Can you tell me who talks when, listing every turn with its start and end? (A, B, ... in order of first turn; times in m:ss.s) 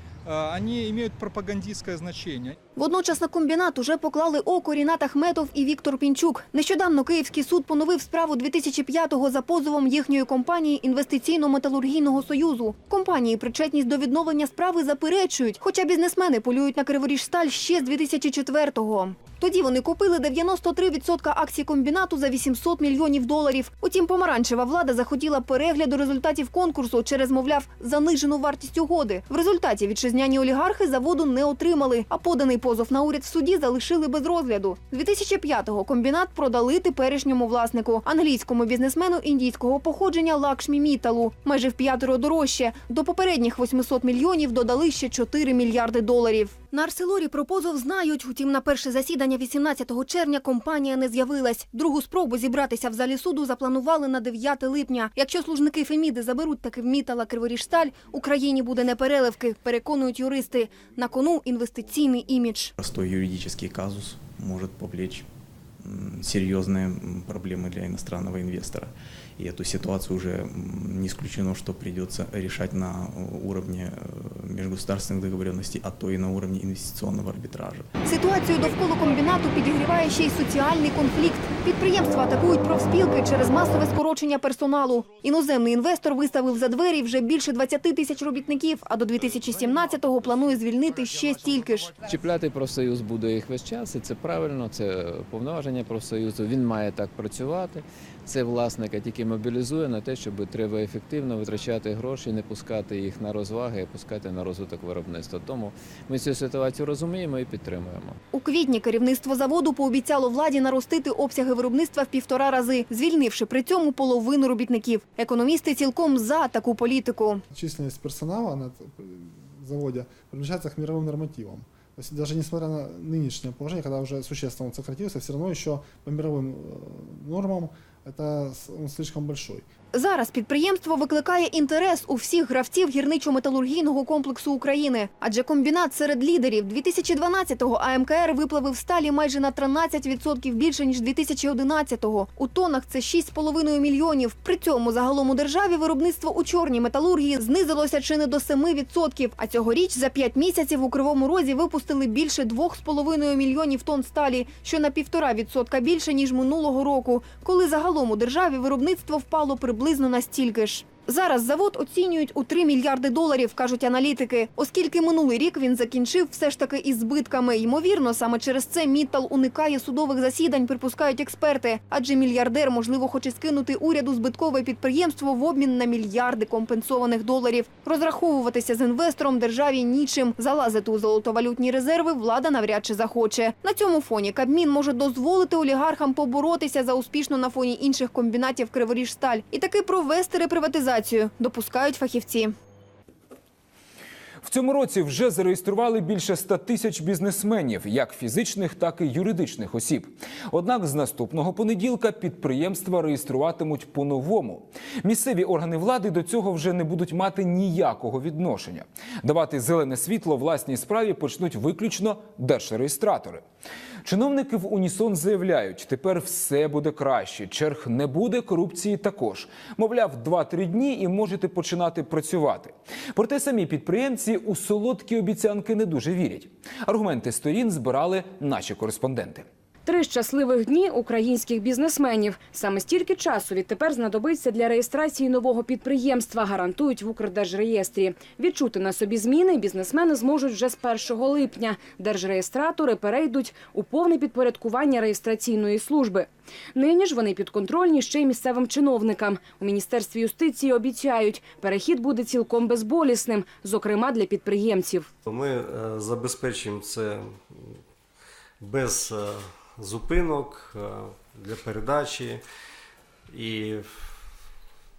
0:00.2-0:02.6 A
0:02.8-1:02.7 B
1:02.8-1:05.3 C
1:05.8-1:17.9 C
1:18.0-1:32.0 B
1:32.0-1:48.2 D
1:48.3-1:57.4 B
1:57.5-2:09.6 E
2:09.9-3:12.5 B
3:14.4-3:33.4 F
3:34.0-3:49.4 F
3:49.8-4:15.1 G
4:15.2-4:17.8 H
4:18.6-4:22.4 H
4:23.3-4:24.1 H